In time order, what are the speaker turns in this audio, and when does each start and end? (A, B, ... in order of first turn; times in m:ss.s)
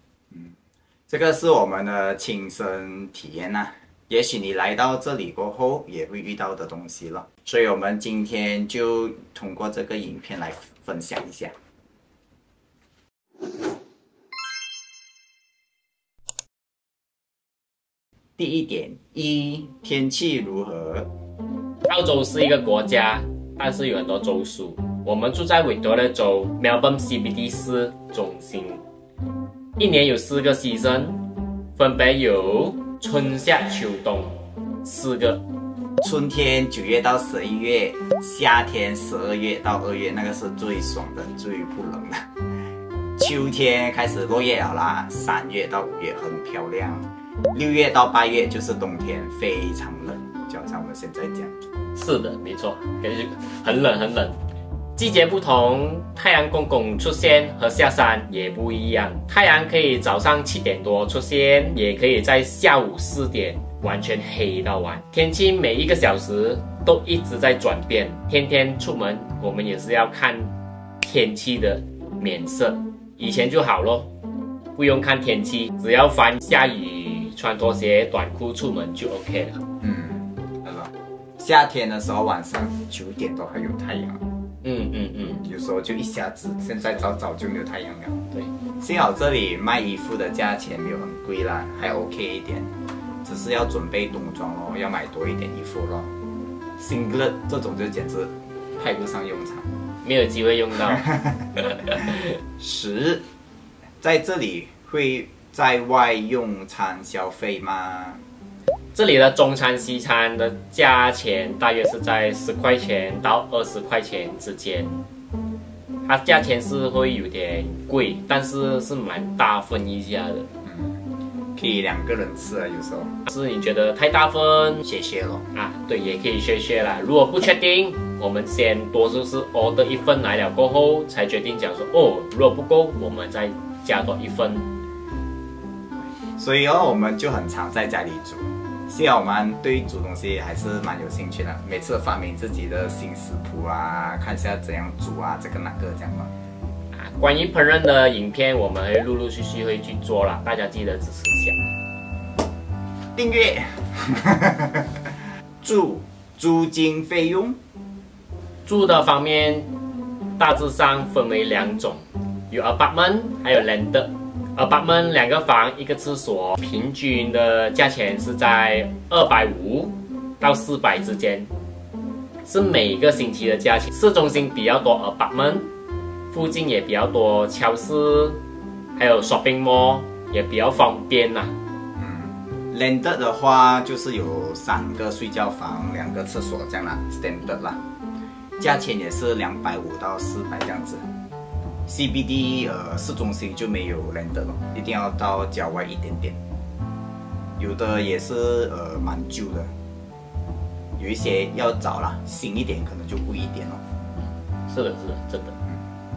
0:01.1-0:11.5 A
0:18.4-0:21.1 A
0:21.9-0:28.8 B
0:29.8-0:31.2 B
0:31.8-0:35.4 B
0:36.0-0:42.3 A
0:43.2-0:51.5 A
0:52.0-0:54.4 B
0:55.0-1:14.1 B
1:14.8-1:19.6 B
1:19.8-1:24.2 A
1:24.6-1:25.5 B
1:25.4-1:28.2 A
1:28.8-1:32.7 A
1:33.2-1:36.1 A
1:36.8-1:39.7 A
1:40.0-1:41.1 B
1:41.1-1:41.4 A
1:41.6-1:42.3 B
1:42.6-1:43.2 A
1:44.0-1:48.2 A
1:48.9-1:55.0 B
1:56.1-2:00.5 B
2:00.6-2:01.0 A
2:01.6-2:03.2 A
2:03.3-2:04.8 B
2:04.8-2:05.5 A
2:05.5-2:14.7 B
2:16.4-2:26.3 A
2:26.9-2:31.6 B
2:33.2-2:35.0 A
2:35.6-2:37.6 A
2:38.7-2:39.7 B
2:40.4-2:51.5 B
2:52.5-2:55.7 B
2:56.3-2:58.4 B
2:59.0-3:01.5 B
3:02.0-3:07.8 A
3:08.6-3:11.1 A
3:11.9-3:16.4 A
3:17.6-3:19.7 A
3:21.0-3:23.8 A
3:24.7-3:25.6 B